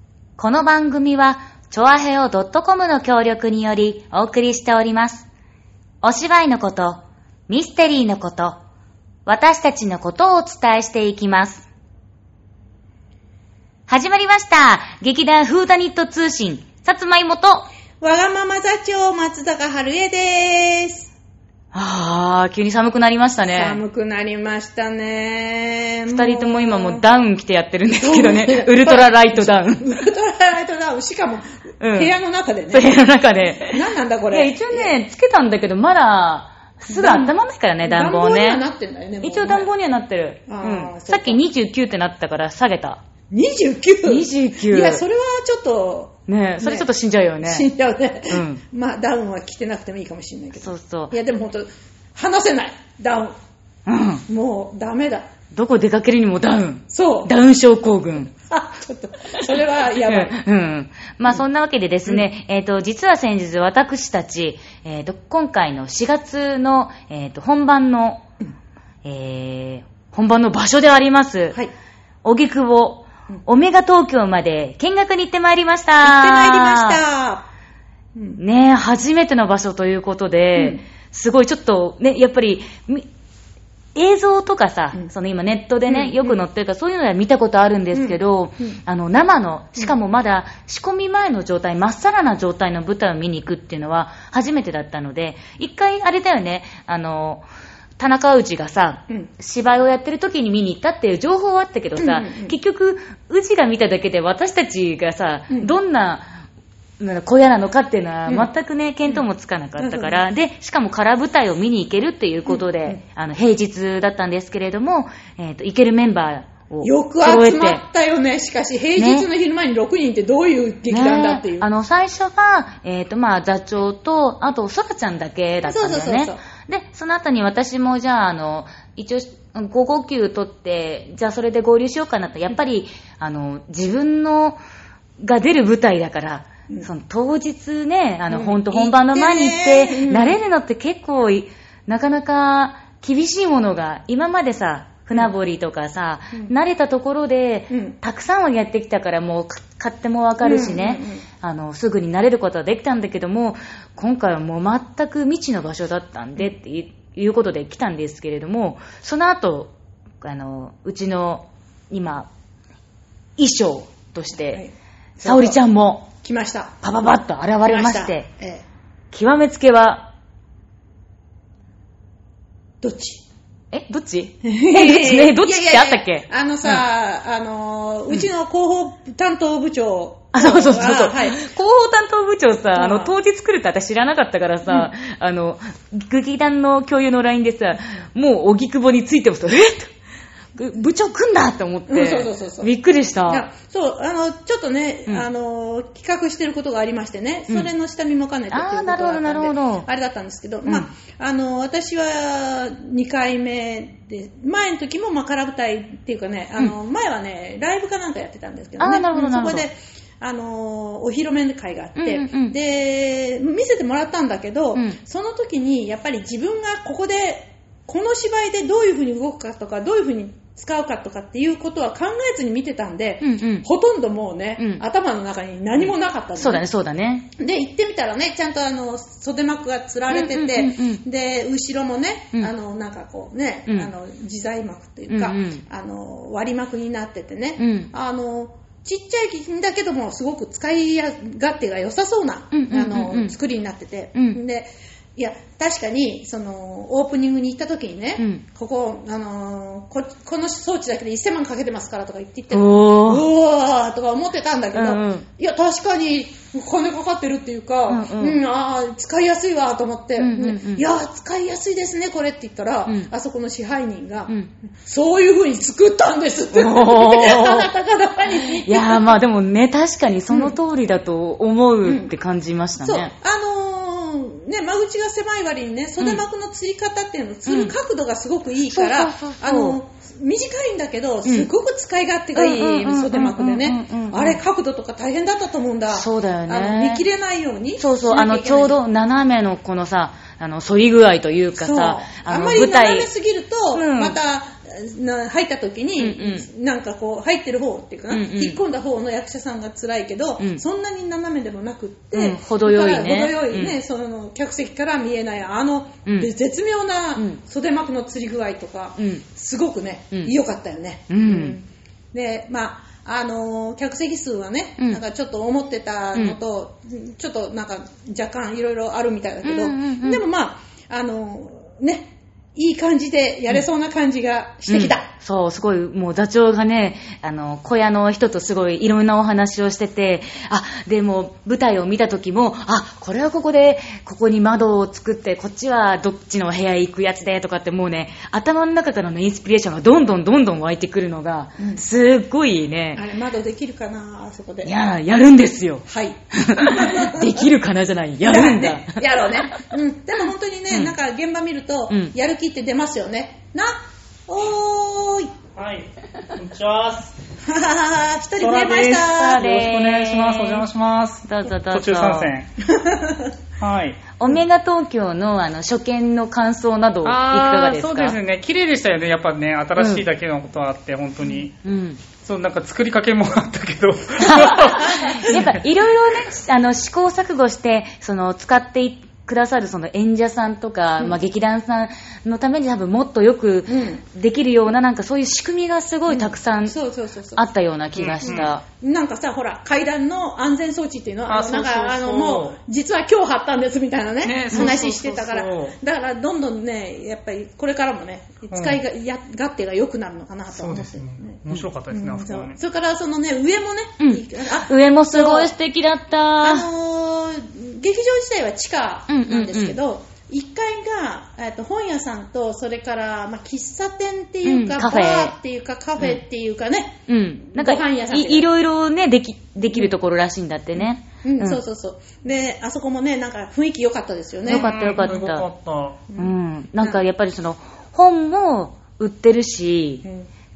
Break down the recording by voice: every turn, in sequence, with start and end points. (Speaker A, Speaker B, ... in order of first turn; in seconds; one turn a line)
Speaker A: 0.4-5.3
Speaker A: 6.0-8.6
Speaker A: 9.2-11.6
Speaker A: 13.9-17.7
Speaker B: 18.0-21.1
Speaker A: 21.7-23.8
Speaker B: 23.5-27.0
Speaker A: 26.1-30.1
Speaker B: 28.0-34.9
Speaker A: 31.8-32.1
Speaker A: 32.7-38.6
Speaker B: 36.9-39.7
Speaker A: 39.2-43.0
Speaker B: 40.5-41.4
Speaker B: 43.3-46.9
Speaker A: 44.0-45.0
Speaker A: 46.3-47.7
Speaker B: 47.4-53.4
Speaker A: 48.3-48.6
Speaker A: 50.6-51.1
Speaker A: 53.9-54.2
Speaker B: 54.3-55.3
Speaker A: 55.5-58.3
Speaker B: 56.9-57.3
Speaker B: 58.5-60.4
Speaker A: 60.0-68.2
Speaker A: 69.0-71.6
Speaker A: 72.2-77.0
Speaker B: 76.0-77.4
Speaker B: 78.1-78.4
Speaker A: 78.4-83.1
Speaker B: 80.5-80.8
Speaker A: 83.9-97.5
Speaker B: 85.9-86.4
Speaker B: 87.9-88.8
Speaker A: 98.0-106.4
Speaker B: 102.0-102.5
Speaker A: 107.0-117.8
Speaker B: 109.8-110.2
Speaker B: 112.5-113.0
Speaker B: 116.8-121.7
Speaker A: 119.0-119.3
Speaker A: 120.9-134.6
Speaker B: 125.7-126.4
Speaker A: 135.2-162.3
Speaker B: 138.3-140.4
Speaker B: 147.7-148.0
Speaker B: 150.4-151.2
Speaker A: 163.4-164.6
Speaker B: 164.5-165.6
Speaker A: 165.2-166.1
Speaker B: 166.1-166.8
Speaker A: 166.8-168.3
Speaker B: 167.7-168.6
Speaker A: 169.1-170.1
Speaker B: 172.8-173.2
Speaker A: 173.7-176.8
Speaker B: 174.4-181.4
Speaker A: 180.3-189.9
Speaker B: 182.7-183.1
Speaker A: 190.5-193.4
Speaker B: 191.9-192.7
Speaker B: 193.3-226.6
Speaker A: 198.5-199.9
Speaker A: 208.8-209.7
Speaker A: 211.9-212.5
Speaker A: 223.2-223.7
Speaker A: 224.6-224.8
Speaker A: 226.3-227.3
Speaker B: 227.4-269.2
Speaker A: 230.1-231.0
Speaker A: 235.1-235.6
Speaker A: 237.6-237.9
Speaker A: 242.5-243.3
Speaker A: 244.1-244.4
Speaker A: 248.2-248.4
Speaker A: 252.5-253.2
Speaker A: 254.7-255.2
Speaker A: 257.9-258.4
Speaker A: 260.2-260.8
Speaker A: 266.5-267.7
Speaker A: 268.5-273.1
Speaker B: 270.3-270.6
Speaker B: 271.8-272.1
Speaker B: 272.8-288.8
Speaker A: 277.4-277.7
Speaker A: 278.7-279.8
Speaker A: 282.3-284.4
Speaker A: 285.9-287.0
Speaker A: 287.8-293.1
Speaker B: 291.6-325.1
Speaker A: 293.7-294.1
Speaker A: 296.0-296.5
Speaker A: 298.1-298.6
Speaker A: 302.1-303.8
Speaker A: 309.0-309.2
Speaker A: 311.1-311.6
Speaker A: 319.4-320.2
Speaker A: 324.7-343.0
Speaker B: 342.9-344.7
Speaker A: 344.6-349.6
Speaker B: 345.9-347.5
Speaker B: 348.2-355.3
Speaker A: 350.7-350.9
Speaker C: 355.5-357.1
Speaker B: 357.4-359.4
Speaker C: 358.4-362.5
Speaker A: 359.1-360.6
Speaker A: 361.2-362.3
Speaker B: 362.6-363.3
Speaker C: 363.6-364.0
Speaker A: 364.2-368.2
Speaker C: 367.0-371.6
Speaker A: 369.8-370.0
Speaker A: 371.6-372.0
Speaker C: 372.1-375.6
Speaker A: 374.2-386.8
Speaker B: 374.9-375.3
Speaker B: 383.7-384.0
Speaker B: 386.1-387.4
Speaker A: 387.4-388.6
Speaker C: 387.9-388.5
Speaker B: 388.2-401.4
Speaker C: 391.3-392.6
Speaker C: 394.2-395.8
Speaker C: 398.5-398.8
Speaker C: 400.5-402.6
Speaker B: 401.9-405.5
Speaker A: 404.0-406.7
Speaker B: 406.4-418.5
Speaker A: 409.1-409.8
Speaker A: 414.4-415.3
Speaker A: 417.1-421.6
Speaker B: 419.7-419.9
Speaker B: 420.8-424.7
Speaker C: 424.4-426.0
Speaker A: 424.5-425.5
Speaker B: 426.1-427.0
Speaker A: 426.1-430.0
Speaker B: 430.0-430.3